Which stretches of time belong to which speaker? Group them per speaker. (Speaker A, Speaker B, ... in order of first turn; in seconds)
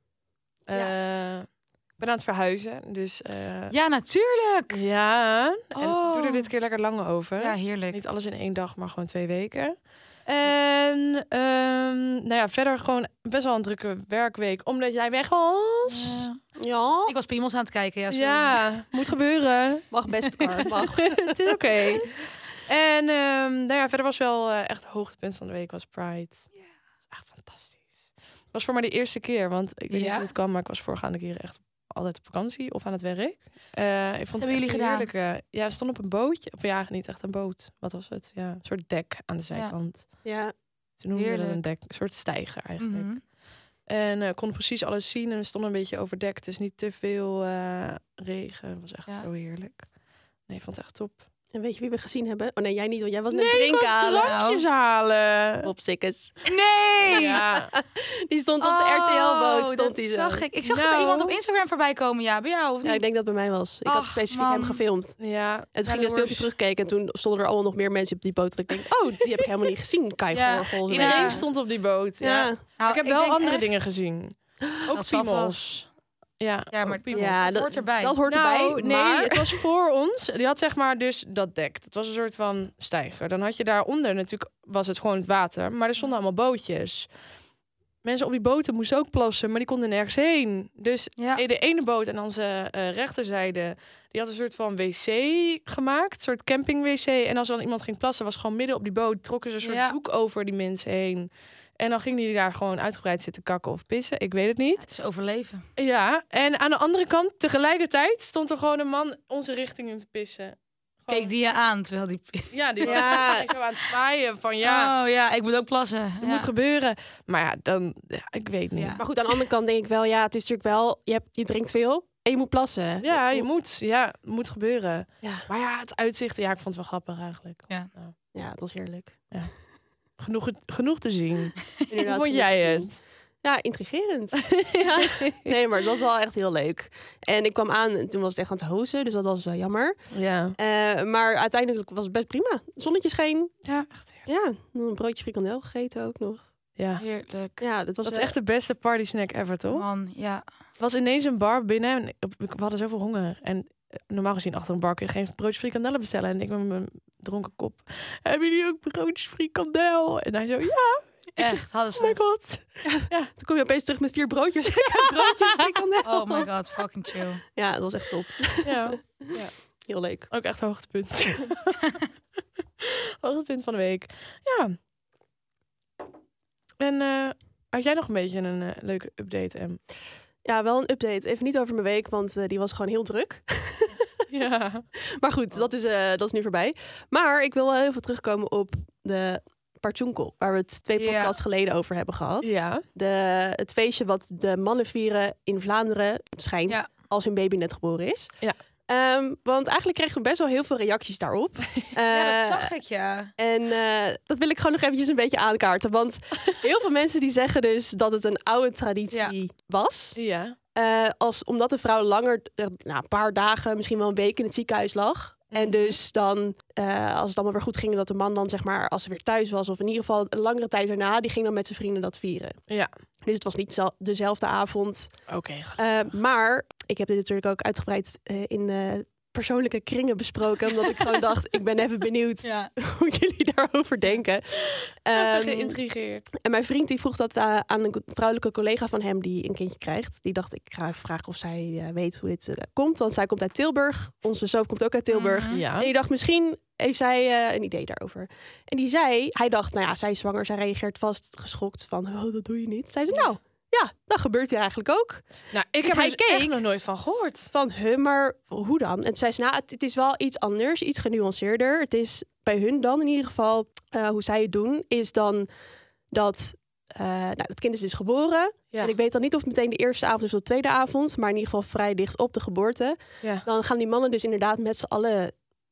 Speaker A: 0.7-3.7, 4.7-16.3, 18.1-19.9, 20.6-26.5, 27.1-40.3, 41.0-43.3, 43.8-49.9, 50.5-51.2, 53.3-55.7, 57.1-57.7, 60.6-61.4, 65.2-65.7, 70.9-77.4, 78.2-87.1, 88.0-104.8, 105.8-111.3, 112.5-114.9, 116.2-119.0, 123.0-128.1, 130.2-133.0, 134.5-135.3, 140.1-140.6, 143.6-144.2, 146.8-147.0, 148.0-149.8, 150.8-161.6, 162.2-163.3, 168.6-169.5, 170.3-171.9, 172.8-174.8, 176.8-179.8, 184.3-184.9, 192.4-192.8, 210.2-210.6, 215.5-215.9, 225.3-226.1, 235.1-236.2, 245.5-245.9, 255.5-257.5
Speaker B: 3.7-4.8, 5.7-6.5, 7.4-8.0, 15.9-16.4, 17.1-18.6, 29.9-30.3, 34.4-35.1, 41.1-41.6, 42.8-43.2, 54.2-54.6, 56.5-57.4, 58.6-63.0, 63.8-64.8, 65.8-66.4, 70.3-71.4, 72.8-73.7, 74.9-75.6, 76.7-78.1, 91.2-91.4, 99.6-99.9, 104.8-105.6, 111.1-113.2, 114.6-116.5, 118.7-119.2, 147.0-147.6, 149.7-150.4, 161.4-162.2, 166.0-167.4, 191.0-191.3, 202.1-203.3, 232.4-232.7, 245.1-245.6
Speaker C: 16.6-17.1, 19.9-22.0, 40.2-40.5, 51.5-54.4, 55.6-56.5, 57.1-60.4, 62.8-71.5, 72.2-72.6, 77.1-79.7, 112.8-113.5, 119.0-123.5, 125.2-125.5, 128.3-129.3, 131.9-143.6, 144.2-146.5, 147.6-148.3, 162.0-166.5, 167.5-170.3, 180.4-184.3, 185.1-202.7, 203.4-210.2, 210.7-222.6, 223.2-235.8, 236.4-255.2, 255.8-256.6, 257.5-265.5, 266.1-275.3